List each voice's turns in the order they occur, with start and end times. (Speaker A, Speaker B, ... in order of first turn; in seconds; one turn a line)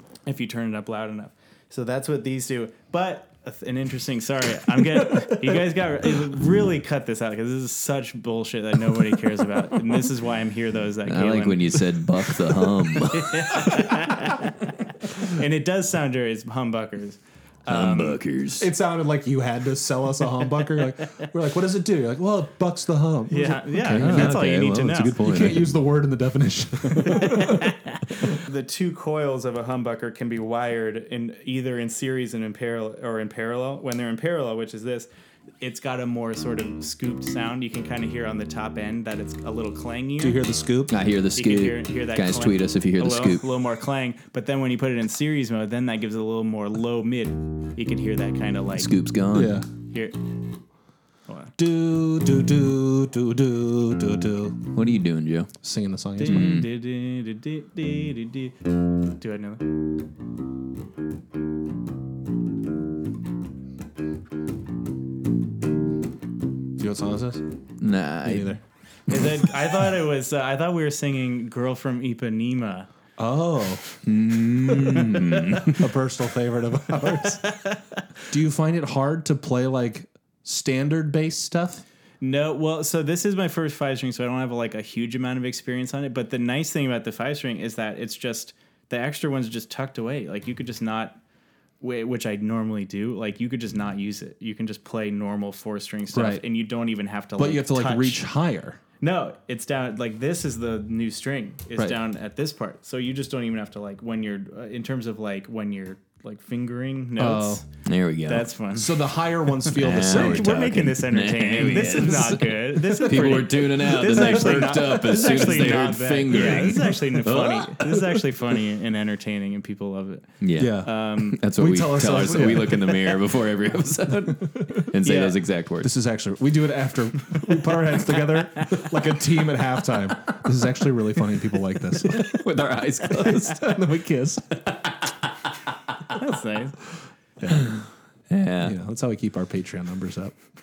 Speaker A: 0.3-11.9
Speaker B: 5.1-5.4
Speaker C: 11.1-13.8
Speaker A: 12.6-18.2
Speaker B: 13.6-14.1
Speaker C: 17.7-18.7
Speaker B: 18.6-24.5
Speaker A: 23.3-25.2
Speaker C: 23.8-25.7
Speaker B: 25.2-27.8
Speaker A: 27.0-35.1
Speaker A: 35.6-40.4
Speaker B: 40.2-41.0
Speaker C: 40.9-43.5
Speaker A: 41.4-48.9
Speaker C: 48.8-49.6
Speaker B: 49.3-49.7
Speaker A: 49.9-50.2
Speaker B: 51.6-54.6
Speaker C: 54.7-55.5
Speaker B: 55.6-56.6
Speaker A: 56.2-58.5
Speaker C: 56.3-56.7
Speaker A: 59.2-59.6
Speaker B: 66.8-67.4
Speaker C: 67.8-68.6
Speaker B: 68.2-68.6
Speaker A: 69.1-72.9
Speaker B: 73.2-73.8
Speaker C: 74.0-75.9
Speaker B: 75.7-77.4
Speaker A: 77.0-78.0
Speaker B: 78.3-81.8
Speaker A: 82.2-91.2
Speaker A: 91.8-98.2
Speaker B: 96.1-96.4
Speaker B: 97.4-98.8
Speaker A: 99.0-107.7
Speaker B: 107.2-107.6
Speaker C: 107.8-108.5
Speaker A: 108.3-121.4
Speaker B: 108.8-110.7
Speaker C: 109.8-118.0
Speaker B: 114.2-115.7
Speaker B: 116.3-117.0
Speaker C: 120.4-125.9
Speaker B: 120.6-120.9
Speaker B: 121.4-123.2
Speaker B: 124.5-124.9
Speaker A: 125.0-125.4
Speaker B: 125.8-132.4
Speaker C: 132.0-133.6
Speaker B: 133.1-134.6
Speaker C: 134.7-135.2
Speaker A: 136.1-136.8
Speaker B: 137.4-137.8
Speaker C: 138.3-138.8
Speaker B: 138.6-140.4